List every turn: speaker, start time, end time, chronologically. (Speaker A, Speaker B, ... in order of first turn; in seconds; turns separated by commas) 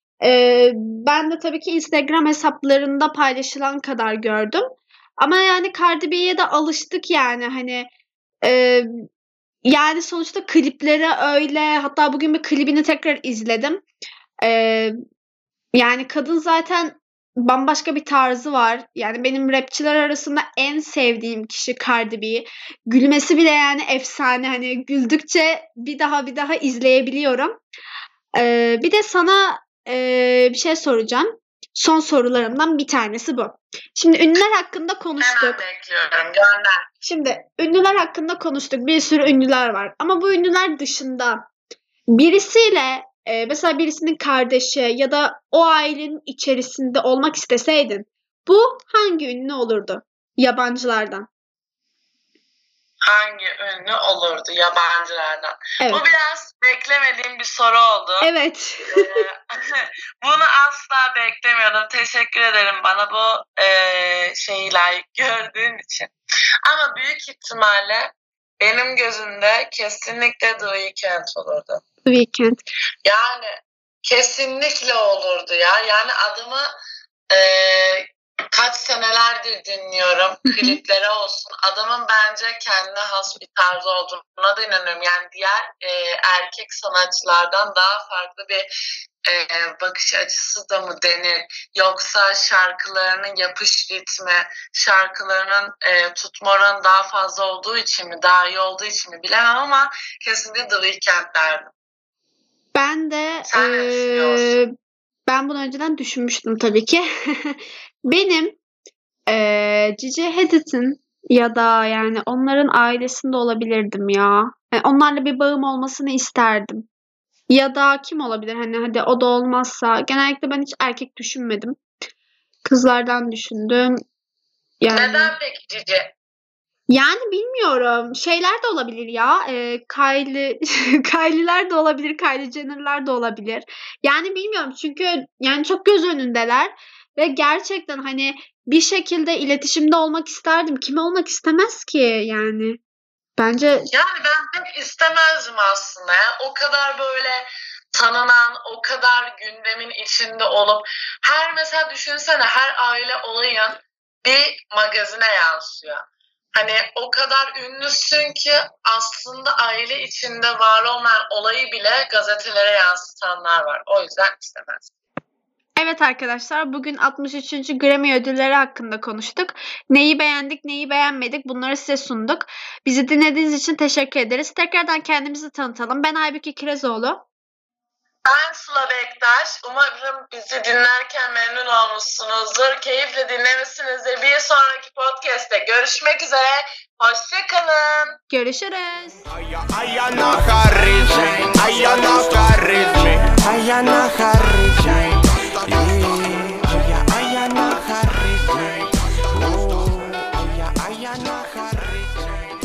Speaker A: 0.2-7.9, Speaker A: 8.4-9.0, Speaker A: 9.6-13.8, Speaker A: 14.4-14.9, Speaker A: 15.7-27.6, Speaker A: 28.3-35.6, Speaker B: 35.2-36.9, Speaker A: 37.0-41.5, Speaker A: 42.1-51.3, Speaker B: 53.0-58.3, Speaker A: 55.8-56.0, Speaker A: 58.2-59.1, Speaker B: 58.9-66.1, Speaker B: 66.7-71.8, Speaker A: 72.0-72.6, Speaker B: 73.0-73.5, Speaker B: 74.0-76.7, Speaker B: 77.3-88.7, Speaker A: 80.5-80.8, Speaker B: 89.2-101.7, Speaker A: 102.7-104.7, Speaker B: 103.5-104.6, Speaker A: 105.3-108.6, Speaker A: 109.3-116.9, Speaker A: 117.5-121.8, Speaker A: 122.6-124.0, Speaker A: 124.8-125.3, Speaker B: 124.9-126.1, Speaker A: 126.9-142.8, Speaker A: 143.4-143.9, Speaker B: 143.9-164.9, Speaker A: 165.8-177.2, Speaker B: 178.2-188.1, Speaker A: 188.3-189.2, Speaker C: 190.0-195.1, Speaker C: 195.7-196.2, Speaker C: 196.9-198.7, Speaker C: 200.8-202.0